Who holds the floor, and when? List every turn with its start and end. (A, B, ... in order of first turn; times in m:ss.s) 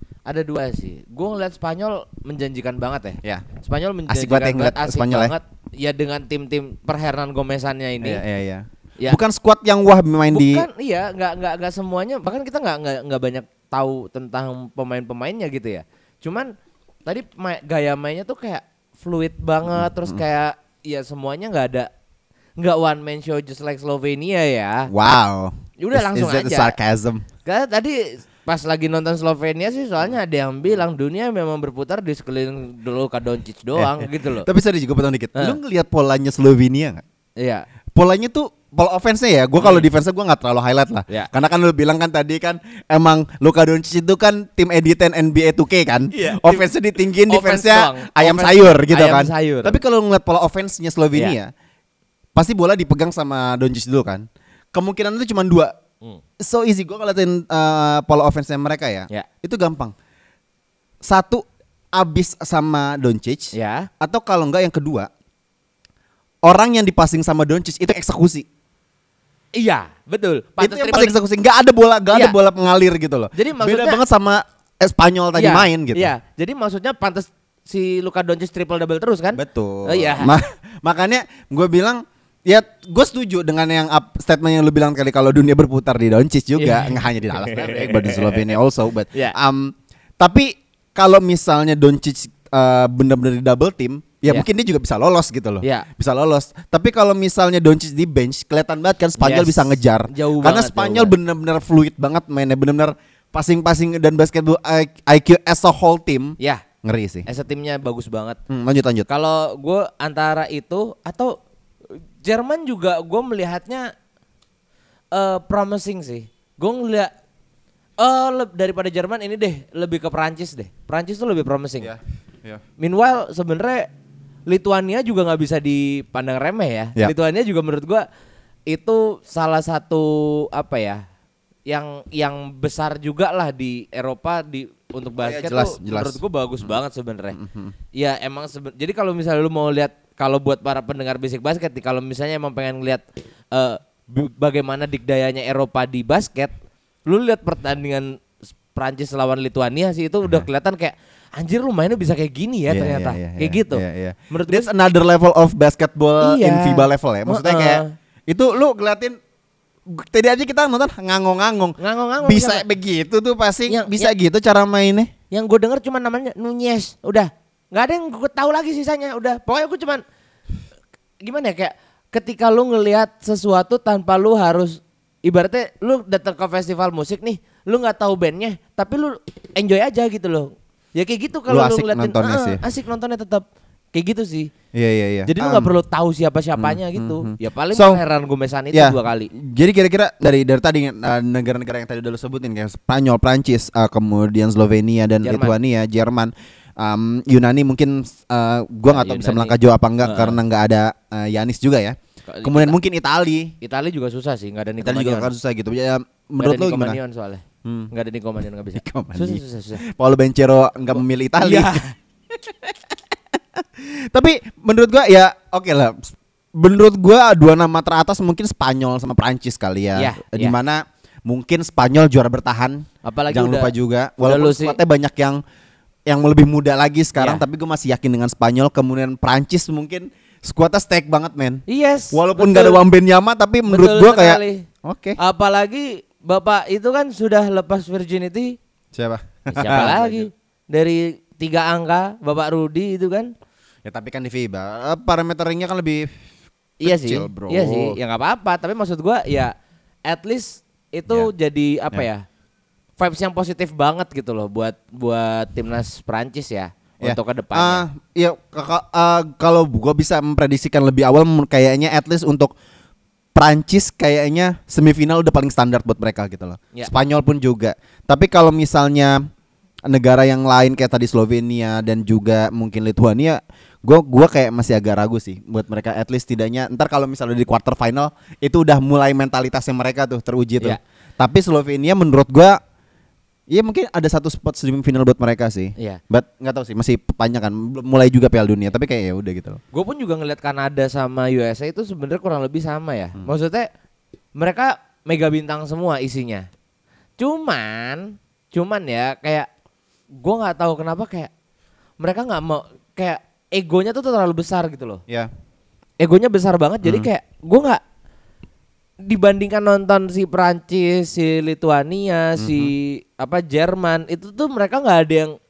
0:00.3-0:08.2 A
0:04.1-0:05.3 B
0:08.0-0:10.7 B
0:10.3-0:16.5 A
0:17.0-0:21.9 A
0:19.8-0:20.2 B
0:22.6-0:24.9 A
0:24.9-0:27.2 B
0:25.8-0:26.7 A
0:27.4-0:34.5 A
0:33.8-0:37.0 B
0:37.4-0:37.6 A
0:37.9-0:51.5 B
0:39.6-0:39.9 A
0:46.1-0:46.7 A
0:47.3-0:49.8 A
0:52.4-0:55.7 B
0:56.4-0:59.9 B
1:01.0-1:05.1 B
1:03.5-1:03.9 A
1:06.4-1:08.4 B
1:09.6-1:11.1 A
1:10.6-1:16.1 B
1:13.3-1:14.0 A
1:15.3-1:20.4 A
1:19.3-1:47.3 B
1:26.6-1:28.5 A
1:35.6-1:35.9 A
1:39.2-1:41.1 A
1:47.2-1:48.4 A
1:48.5-1:49.1 B
1:49.1-1:51.4 A
1:52.2-1:53.9 A
1:55.1-1:57.1 A
1:58.0-2:01.9 A
2:01.8-2:02.6 B
2:02.8-2:03.9 A
2:04.5-2:08.0 A
2:08.7-2:11.0 A
2:11.7-2:17.4 A
2:15.2-2:16.7 B
2:17.3-2:17.7 B
2:17.9-2:26.5 A
2:27.1-2:28.1 A
2:28.7-2:34.7 A
2:32.7-2:39.2 B
2:36.2-2:37.9 A
2:39.9-2:45.1 B
2:41.8-2:42.6 A
2:43.7-2:44.1 A
2:45.3-2:50.0 A
2:51.2-3:04.5 A
3:01.5-3:02.6 B
3:04.7-3:05.7 B
3:05.3-3:09.3 A
3:06.6-3:08.0 B
3:08.7-3:23.5 B
3:15.2-3:15.5 A
3:18.9-3:20.4 A
3:22.2-3:22.7 A
3:23.6-3:25.3 A
3:24.8-3:27.0 B
3:26.4-3:29.8 A
3:27.6-3:27.9 B
3:28.8-3:45.4 B
3:30.9-3:31.9 A
3:39.9-3:40.6 A
3:43.0-3:44.8 A
3:46.1-3:55.2 B
3:47.2-3:47.4 A
3:51.7-3:52.8 A
3:53.7-3:54.7 A
3:55.2-3:58.6 A
3:58.9-4:00.3 B
3:59.5-4:03.3 A
4:03.8-4:06.1 B
4:06.8-4:09.5 A
4:06.8-4:08.0 B
4:10.1-4:12.2 A
4:13.0-4:17.8 A
4:17.0-4:22.5 B
4:23.3-4:29.2 B
4:29.9-4:42.6 B
4:43.5-4:49.6 B
4:49.7-4:53.7 A
4:54.4-4:56.5 A
4:57.2-4:59.5 A
5:00.2-5:01.3 A
5:02.0-5:05.0 A
5:06.0-5:07.8 A
5:06.8-5:07.1 B
5:09.0-5:15.3 A
5:12.4-5:12.7 B